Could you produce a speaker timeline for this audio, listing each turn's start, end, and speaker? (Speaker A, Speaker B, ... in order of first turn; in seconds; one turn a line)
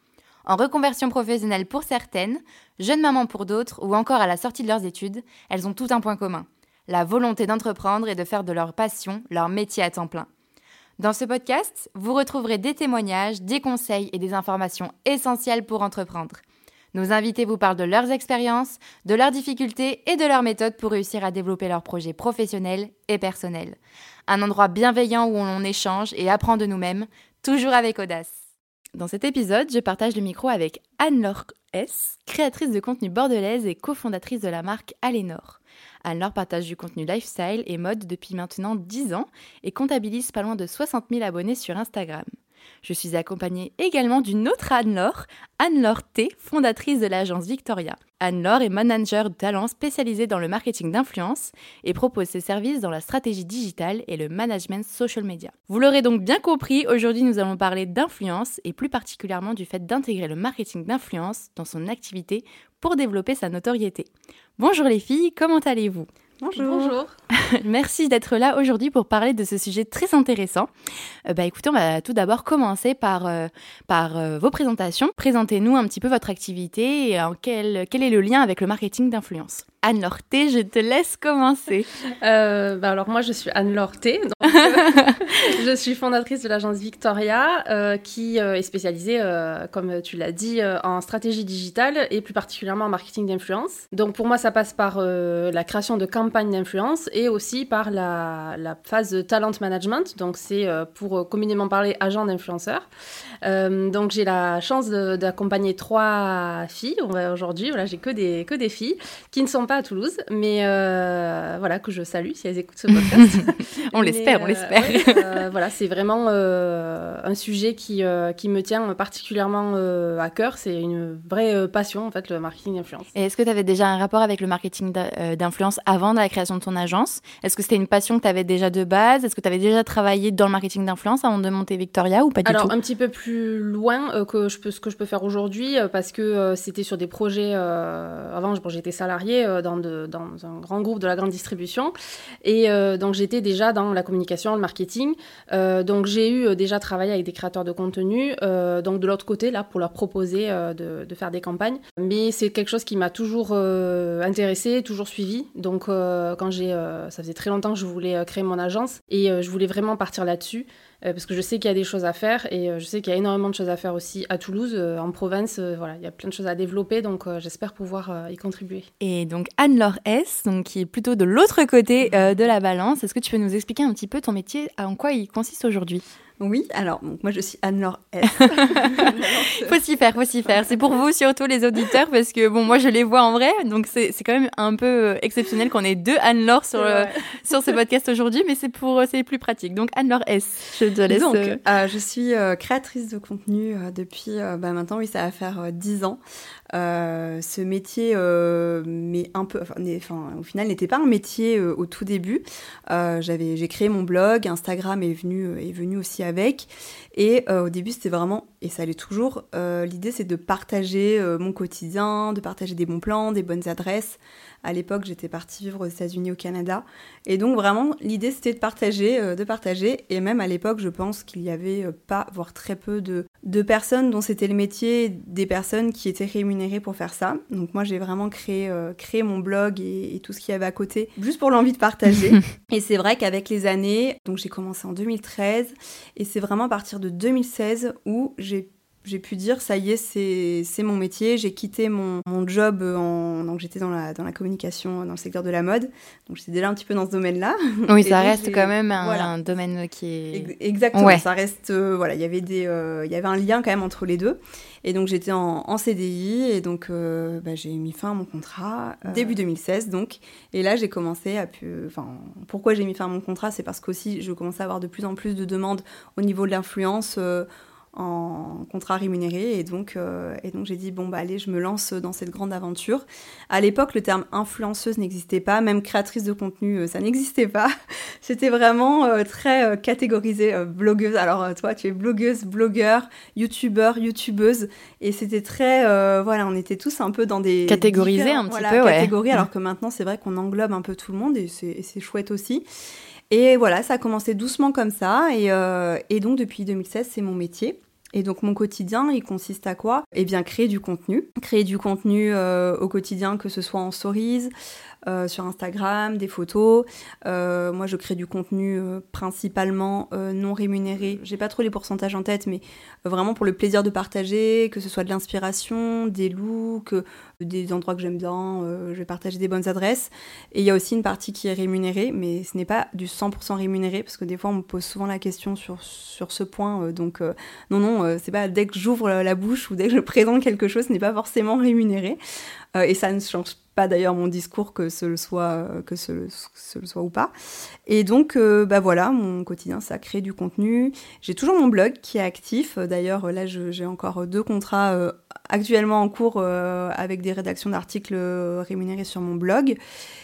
Speaker A: 0.4-10.3
Speaker A: 11.0-16.4
Speaker A: 16.9-28.4
Speaker A: 28.9-42.3
Speaker A: 42.8-66.1
Speaker B: 66.4-67.0
Speaker C: 66.5-67.1
Speaker A: 67.3-70.7
Speaker A: 71.2-81.9
Speaker C: 82.2-102.8
Speaker A: 84.7-85.2
Speaker C: 103.4-123.1
Speaker A: 113.1-115.4
Speaker A: 123.1-132.7
Speaker C: 132.4-168.9
Speaker A: 169.0-176.0
Speaker B: 176.4-179.8
Speaker A: 178.4-191.6
Speaker C: 186.8-187.2
Speaker B: 191.1-196.2
Speaker B: 196.7-249.3
Speaker A: 247.9-251.2
Speaker B: 250.3-292.6
Speaker A: 287.7-289.1
Speaker B: 293.3-304.5
Speaker B: 305.1-332.2
Speaker B: 332.7-337.3
Speaker B: 337.9-349.8